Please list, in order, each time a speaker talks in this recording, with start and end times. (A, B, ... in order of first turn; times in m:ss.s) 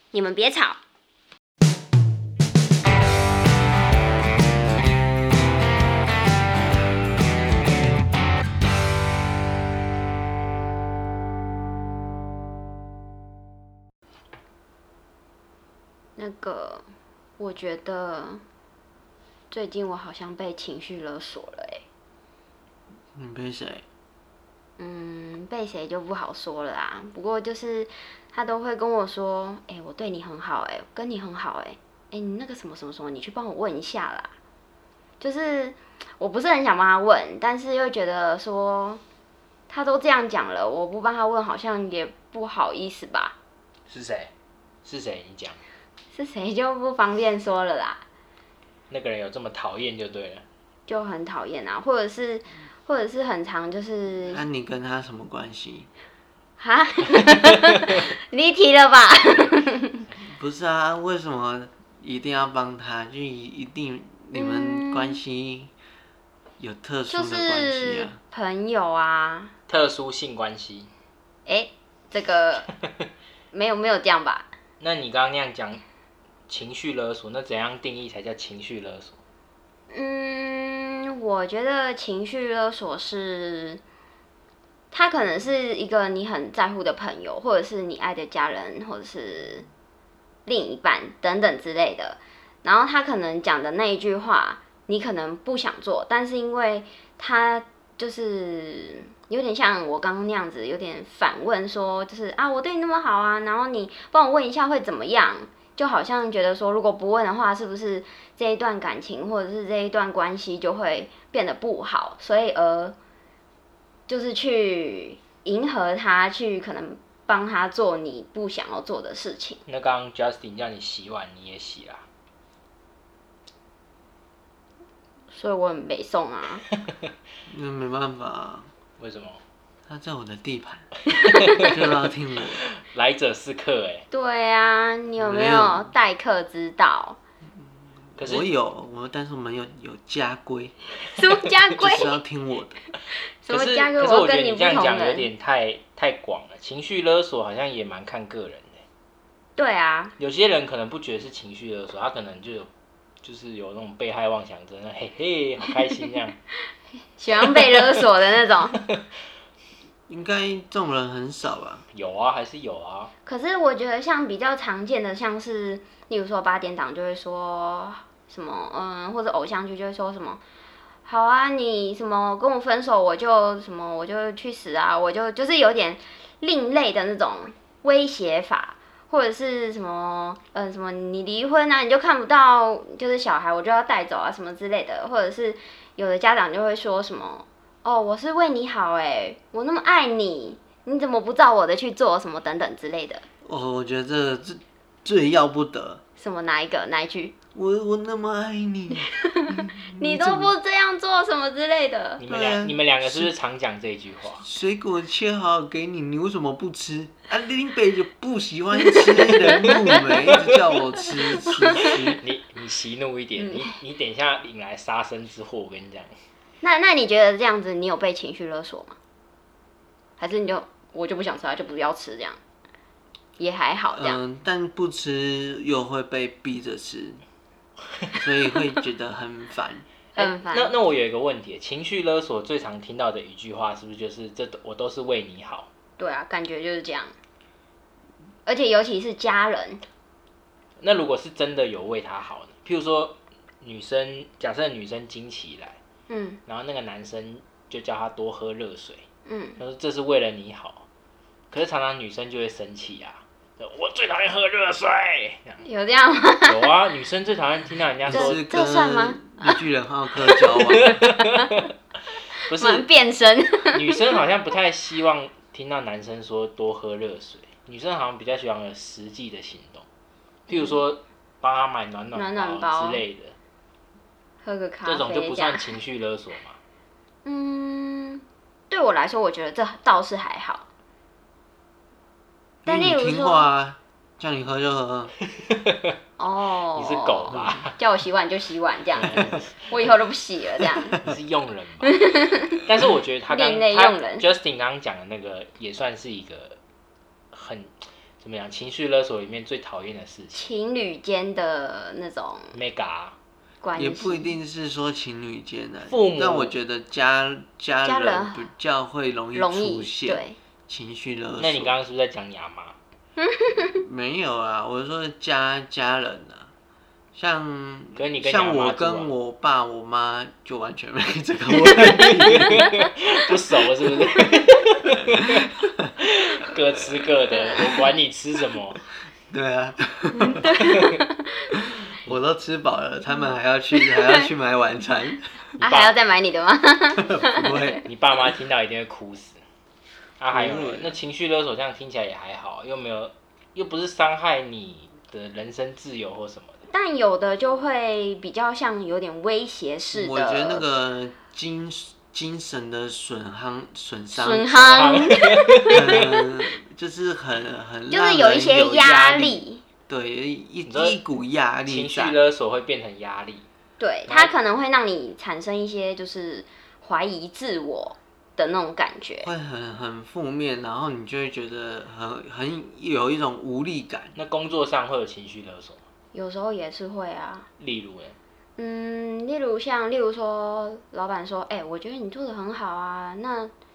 0:00.1-0:00.8 A
0:16.2-0:16.8 A
0:17.4-0:18.4 A
0:19.5-0:21.8 A
0:23.2-0:23.8 B
0:24.8-0:34.3 A
0:35.2-0:39.0 A
0:39.7-0:43.3 A
0:43.9-0:44.3 C
0:44.8-0:45.6 C
0:46.1-0:48.0 A
0:48.9-0:50.4 C
0:50.9-0:54.4 A
0:54.2-0:55.9 B
0:56.6-1:00.0 A
1:00.2-1:05.7 B
1:04.3-1:05.2 A
1:06.6-1:08.2 B
1:07.1-1:09.5 A
1:09.7-1:10.9 C
1:11.4-1:12.7 A
1:13.5-1:14.5 A
1:14.8-1:15.8 C
1:16.5-1:19.2 C
1:19.9-1:23.8 A
1:24.9-1:29.7 A
1:30.4-1:53.0 A
1:54.1-1:59.6 A
1:59.7-2:02.0 C
2:05.3-2:06.6 A
2:07.5-2:08.7 B
2:09.0-2:09.4 C
2:09.9-2:11.0 B
2:11.1-2:11.6 C
2:11.5-2:12.6 B
2:12.6-2:14.0 C
2:14.1-2:17.2 A
2:15.2-2:15.8 B
2:18.0-2:20.8 B
2:18.2-2:18.5 C
2:21.1-2:22.2 A
2:21.8-2:22.8 B
2:23.4-2:25.3 A
2:23.5-2:28.7 C
2:29.6-2:30.1 A
2:30.2-2:32.7 C
2:33.2-2:36.4 C
2:37.2-2:38.8 A
2:37.4-2:38.0 C
2:40.1-2:41.8 B
2:41.9-2:43.1 C
2:43.2-2:50.4 A
2:51.0-3:13.2 A
3:13.4-3:16.0 B
3:16.2-3:17.3 A
3:17.5-3:20.5 B
3:19.8-3:22.2 A
3:22.2-3:24.4 C
3:22.3-3:23.3 B
3:24.4-3:32.2 B
3:29.0-3:29.8 A
3:31.4-3:32.0 A
3:32.0-3:36.1 C
3:33.3-3:33.8 A
3:36.6-3:39.0 A
3:40.2-3:42.4 A
3:43.4-3:44.2 A
3:43.9-3:47.2 B
3:48.2-3:49.8 B
3:50.1-3:50.8 A
3:50.2-3:55.7 C
3:56.0-3:57.1 A
3:58.4-3:59.8 A
4:00.8-4:05.8 C
4:06.1-4:06.4 A
4:06.5-4:09.0 C
4:09.2-4:09.6 A
4:09.6-4:10.8 C
4:11.5-4:15.6 C
4:15.6-4:16.7 A
4:16.4-4:18.4 C
4:18.1-4:20.9 B
4:18.1-4:19.6 A
4:20.2-4:21.5 A
4:20.8-4:21.5 C
4:22.3-4:24.0 A
4:22.5-4:22.8 C
4:23.7-4:29.8 C
4:30.5-4:33.3 C
4:30.5-4:30.8 A
4:32.1-4:33.0 A
4:34.4-4:35.7 A
4:34.8-4:36.6 C
4:37.2-4:40.7 A
4:42.6-4:45.1 B
4:42.6-4:43.5 A
4:45.4-4:45.9 C
4:46.2-4:51.0 A
4:46.7-4:47.8 C
4:49.0-4:49.7 C
4:51.0-4:51.9 C
4:51.8-4:52.6 A
4:52.6-4:56.6 C
4:53.3-4:54.3 A
4:57.3-5:00.5 C
5:00.3-5:02.6 A
5:02.5-5:03.2 C
5:03.6-5:04.3 A
5:03.8-5:11.8 B
5:05.9-5:06.6 C
5:07.8-5:08.5 A
5:09.3-5:10.4 A
5:11.4-5:12.8 C
5:13.2-5:13.8 A
5:13.8-5:16.5 B
5:17.1-5:22.7 B
5:18.0-5:19.1 C
5:22.3-5:28.8 C
5:29.3-5:30.9 B
5:30.2-5:31.5 A
5:32.0-5:35.4 B
5:33.1-5:34.3 A
5:35.6-5:35.9 C
5:35.6-5:37.8 A
5:37.1-5:37.8 B
5:37.8-5:39.4 C
5:40.2-5:46.6 C
5:40.3-5:41.0 B
5:46.7-5:50.6 A
5:49.9-5:54.6 B
5:54.1-5:56.2 A
5:54.5-5:56.1 C
5:55.8-6:02.2 B
5:57.9-5:59.6 A
6:00.6-6:01.0 C
6:01.7-6:03.4 C
6:03.8-6:09.3 A
6:04.1-6:04.3 C
6:09.2-6:14.1 B
6:14.2-6:15.8 C
6:16.1-6:17.5 A
6:17.6-6:18.2 C
6:18.6-6:23.5 A